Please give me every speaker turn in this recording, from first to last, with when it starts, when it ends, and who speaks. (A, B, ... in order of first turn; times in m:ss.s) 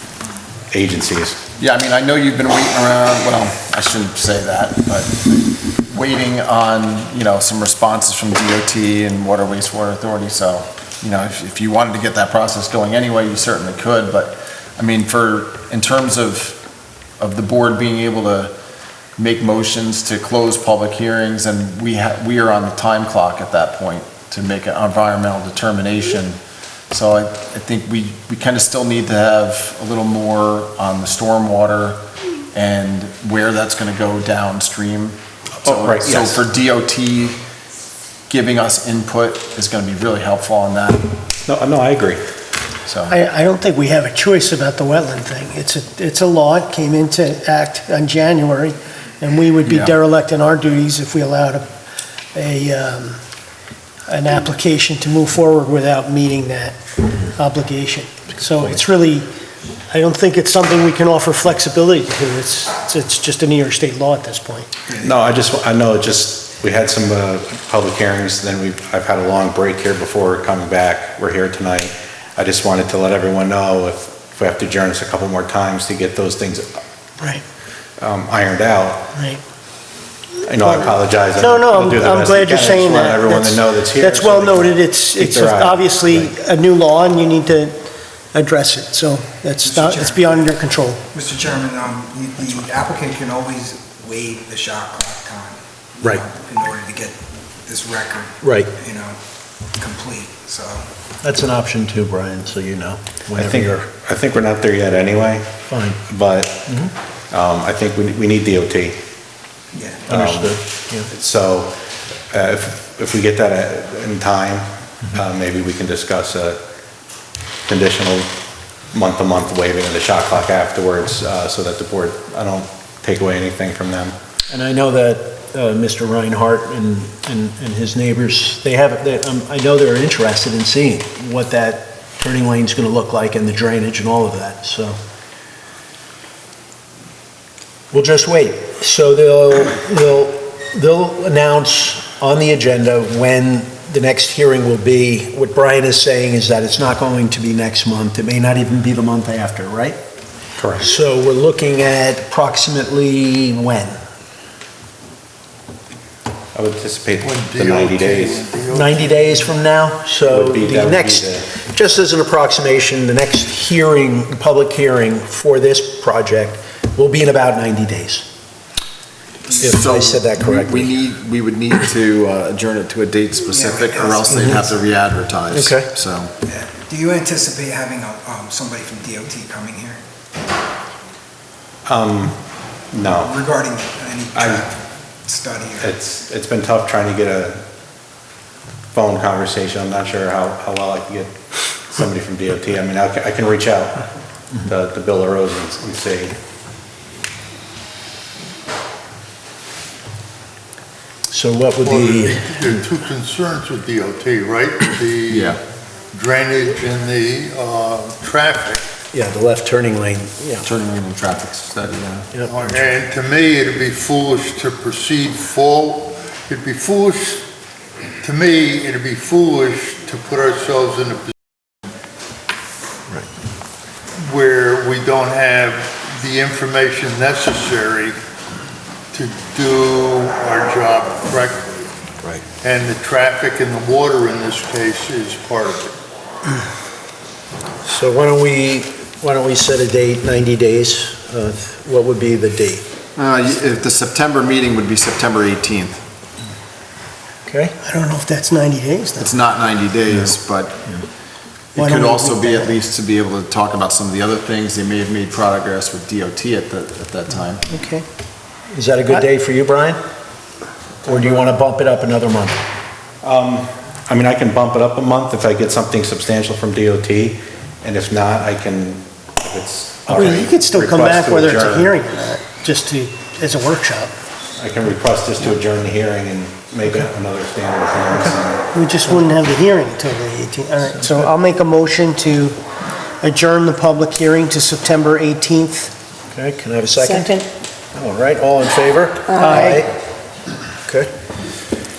0:00.7-0:01.4 A
0:01.6-0:16.6 B
0:17.2-0:18.5 B
0:19.2-0:26.4 B
0:26.9-0:32.0 B
0:32.5-0:37.4 B
0:35.6-0:36.4 A
0:38.3-0:41.0 B
0:41.5-0:42.2 A
0:42.9-0:43.2 B
0:43.1-0:51.6 C
0:49.6-0:49.9 B
0:52.3-0:53.2 C
0:54.1-0:56.8 C
0:57.4-0:59.3 C
0:59.9-1:04.7 C
1:04.9-1:16.8 A
1:18.0-1:19.1 A
1:19.2-1:19.4 C
1:20.4-1:26.3 A
1:20.6-1:27.8 C
1:28.3-1:31.0 C
1:29.7-1:30.5 D
1:31.1-1:39.2 D
1:38.4-1:38.7 E
1:39.8-1:40.9 D
1:41.2-1:43.9 E
1:43.4-1:45.5 A
1:45.7-1:46.0 E
1:46.1-1:46.8 A
1:47.3-1:49.0 A
1:49.8-1:50.0 D
1:50.1-1:51.8 A
1:50.1-1:51.1 E
1:52.3-1:56.6 A
1:57.7-1:58.3 A
1:58.9-2:04.2 A
2:04.5-2:15.0 E
2:17.9-2:30.0 E
2:30.6-2:30.9 A
2:30.8-2:34.0 E
2:36.6-2:38.4 A
2:37.2-2:39.4 F
2:38.7-2:48.3 E
2:40.2-2:41.5 A
2:49.6-2:56.3 B
2:49.6-2:50.9 E
2:53.5-2:54.5 D
2:55.5-2:55.9 E
2:56.5-3:00.0 D
3:01.9-3:02.4 A
3:02.9-3:03.4 A
3:03.2-3:05.9 D
3:04.4-3:04.6 A
3:05.8-3:07.6 A
3:08.9-3:14.0 A
3:14.6-3:16.4 A
3:21.3-3:22.5 E
3:21.8-3:25.6 F
3:25.3-3:25.6 B
3:26.1-3:28.8 F
3:29.1-3:30.7 E
3:30.6-3:32.3 B
3:32.5-3:37.4 F
3:38.2-3:41.3 F
3:44.2-3:48.2 F
3:49.1-3:51.8 F
3:52.6-3:56.0 F
3:57.8-4:02.8 E
4:03.2-4:06.0 B
4:07.5-4:07.7 E
4:07.8-4:09.4 C
4:09.2-4:11.0 B
4:11.8-4:17.6 B
4:11.8-4:12.8 C
4:17.7-4:18.0 C
4:18.7-4:20.0 E
4:21.0-4:22.6 E
4:23.2-4:31.9 A
4:30.1-4:34.1 C
4:34.6-4:38.7 A
4:38.7-4:42.6 C
4:43.2-4:45.9 C
4:46.3-4:49.9 E
4:49.4-4:49.8 C